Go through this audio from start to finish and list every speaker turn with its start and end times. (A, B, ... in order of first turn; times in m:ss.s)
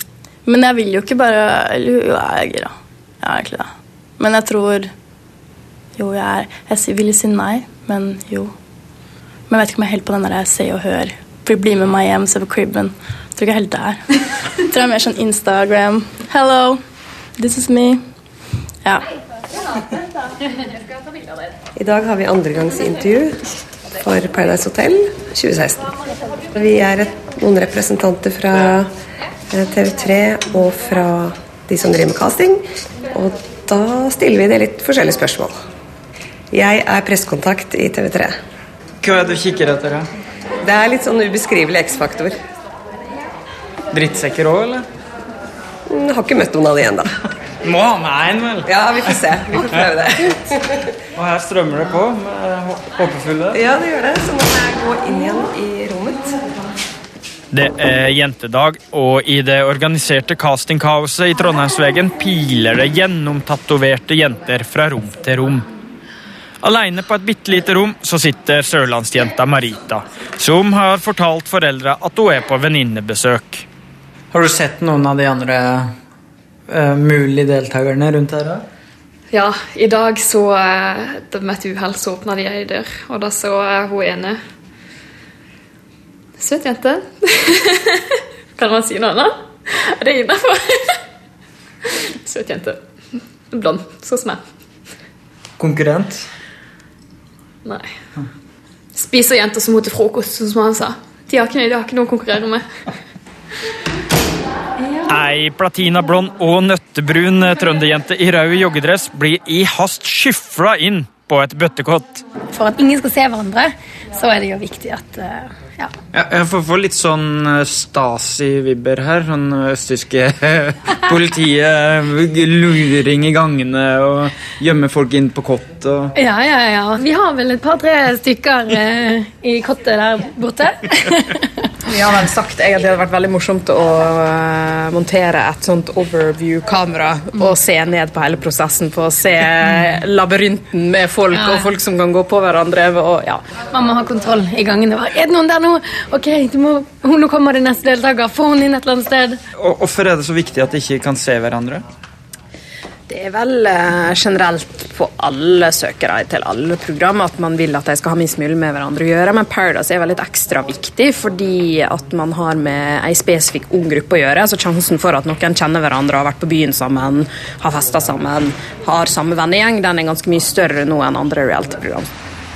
0:00.5-0:04.9 A
0:06.0-0:08.5 A
0:09.5-0:14.1 A
0:14.6-0:16.8 A
0:17.4-0:18.0 A
0:21.8-0:23.4 B
0:24.0-0:25.9 B
0:26.5-0:28.9 B
0:29.5-0:35.6 B
0:36.5-0:38.4 B
0:39.0-0:40.1 C
0:40.6-0:42.4 B
0:43.9-0:44.8 C
0:45.9-0:47.1 B
0:47.6-0:48.6 C
0:48.7-0:50.6 B
0:51.2-0:53.6 C
0:53.5-0:56.4 B
0:57.5-1:05.7 D
1:06.6-1:13.7 D
1:14.3-1:15.9 C
1:16.7-1:18.6 C
1:19.3-1:24.4 E
1:26.4-1:31.0 E
1:31.9-1:34.4 E
1:35.6-1:36.3 C
1:37.6-1:37.9 E
1:39.0-1:42.7 E
1:45.1-1:52.2 D
1:52.5-1:55.9 F
1:56.1-2:06.1 C
2:06.2-2:11.7 F
2:11.8-2:23.4 G
2:21.3-2:21.7 F
2:23.7-2:29.4 F
2:29.6-2:31.8 C
2:33.1-2:52.1 G